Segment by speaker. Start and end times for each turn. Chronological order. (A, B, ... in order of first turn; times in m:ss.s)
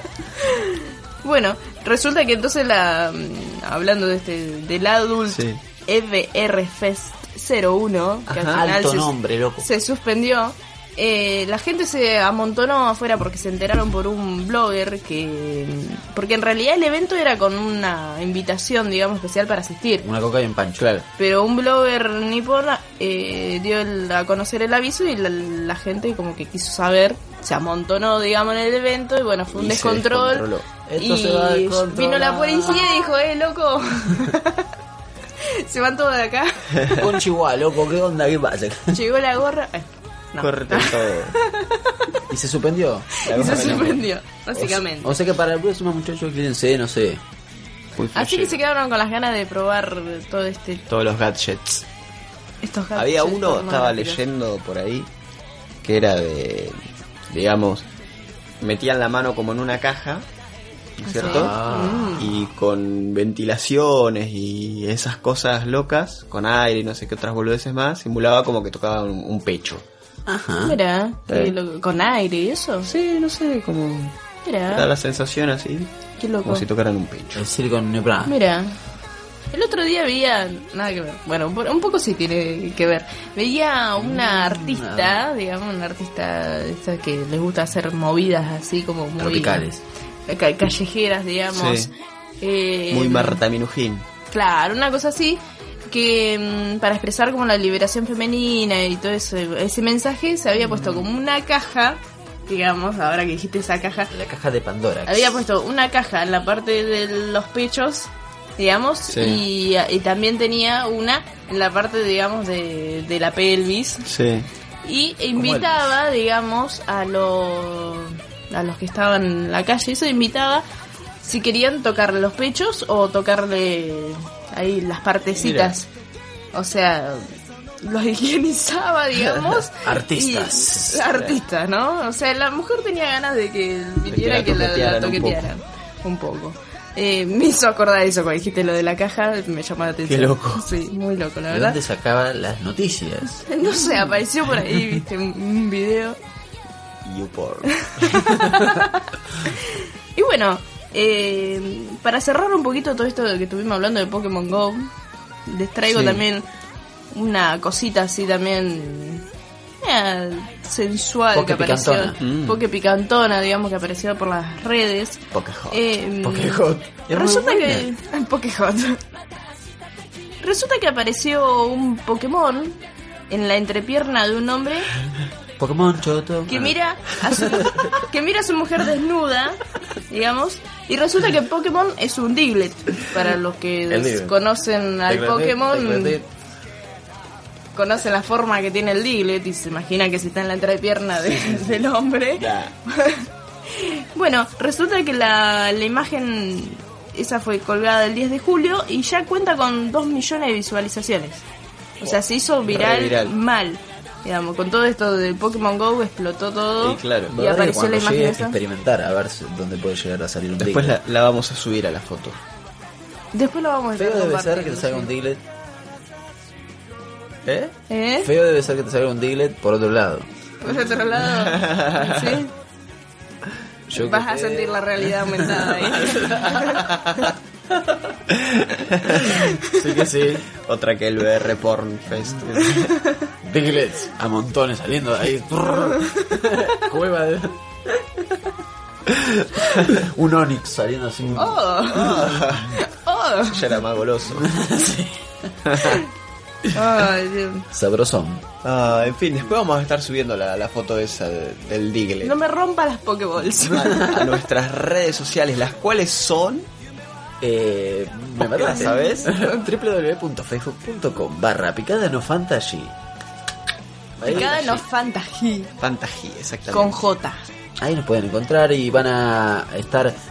0:00.4-0:20.1 A
0:05.3-0:05.6 B
0:08.3-0:08.6 B
0:08.5-0:09.7 C
0:20.0-0:20.9 C
0:20.8-0:21.0 B
0:21.2-0:30.4 A
0:29.5-0:30.6 B
0:30.7-0:32.9 C
0:31.0-0:34.7 A
0:35.4-0:37.2 A
0:36.9-0:39.0 C
0:38.9-0:42.2 A
0:40.4-0:41.3 B
0:42.3-0:43.5 C
0:43.2-0:45.1 A
0:43.2-0:44.0 B
0:44.5-0:47.2 C
0:47.9-0:48.6 B
0:48.1-0:50.8 A
0:50.9-0:51.8 B
0:52.6-0:54.2 A
0:52.9-0:55.1 B
0:55.8-0:56.8 B
0:57.3-0:57.9 B
0:58.6-1:00.2 B
1:01.0-1:01.6 B
1:01.0-1:02.2 A
1:01.2-1:02.4 C
1:02.2-1:09.8 B
1:10.3-1:10.8 C
1:10.6-1:12.9 A
1:11.3-1:11.5 B
1:12.8-1:15.9 B
1:14.4-1:14.9 A
1:16.2-1:16.6 A
1:16.4-1:17.4 B
1:17.3-1:18.4 C
1:18.2-1:18.8 A
1:19.5-1:29.6 A
1:24.0-1:25.2 C
1:29.2-1:29.8 C
1:30.3-1:33.4 A
1:31.5-1:31.9 B
1:32.9-1:34.0 B
1:34.3-1:44.1 A
1:40.7-1:41.1 B
1:44.1-1:45.4 C
1:45.0-1:54.1 A
1:49.1-1:49.4 B
1:54.0-1:54.5 B
1:54.8-2:00.6 A
1:55.3-1:55.8 C
2:01.2-2:05.9 A
2:05.3-2:05.7 B
2:06.5-2:07.3 A
2:07.8-2:21.8 A
2:09.1-2:09.5 B
2:09.8-2:11.1 C
2:14.0-2:15.5 B
2:20.1-2:20.6 B
2:21.5-2:23.5 C
2:23.4-2:26.2 A
2:27.0-2:28.4 B
2:27.7-2:34.9 A
2:35.5-2:36.4 A
2:35.8-2:36.2 B
2:37.1-2:39.2 A
2:39.8-2:49.0 A
2:41.3-2:42.2 C
2:42.2-2:42.6 B
2:45.3-2:45.8 B
2:46.2-2:47.9 C
2:50.4-2:52.8 A
2:53.3-2:54.9 A
2:55.6-2:56.7 C
2:56.5-3:06.2 A
2:57.4-2:57.8 C
3:03.9-3:04.3 C
3:05.1-3:06.1 B
3:05.8-3:06.2 C
3:07.7-3:21.4 A
3:11.3-3:11.6 C
3:12.4-3:12.7 B
3:22.0-3:28.6 A
3:22.6-3:23.3 B
3:26.8-3:27.4 B
3:27.3-3:31.0 C
3:30.6-3:32.4 B
3:33.3-3:35.1 A
3:34.0-3:35.4 C
3:37.4-3:37.7 B
3:37.9-3:38.3 A
3:38.2-3:40.3 C
3:40.6-3:42.5 A
3:41.3-3:42.4 B
3:43.9-3:46.7 C
3:43.9-3:47.3 A
3:46.7-3:47.2 B
3:48.3-3:49.3 B
3:49.1-3:50.5 C
3:49.2-3:49.7 A
3:50.5-3:52.9 B
3:52.1-3:52.5 C
3:52.6-3:53.2 A
3:53.4-3:57.6 C
3:59.2-3:59.9 B
3:59.8-4:02.7 C
4:01.2-4:02.8 B
4:01.4-4:03.6 A
4:03.4-4:04.5 B
4:04.3-4:05.8 C
4:05.6-4:06.0 B
4:05.8-4:06.0 A
4:06.7-4:07.7 A
4:07.7-4:08.4 C
4:08.6-4:12.3 B
4:12.2-4:14.2 A
4:13.6-4:14.3 C
4:13.6-4:16.7 B
4:17.4-4:22.9 C
4:18.4-4:19.3 B
4:18.7-4:19.6 A
4:24.2-4:24.6 C
4:24.2-4:24.8 B
4:24.2-4:25.7 A
4:25.8-4:27.0 B
4:26.7-4:27.5 A
4:27.8-4:30.2 C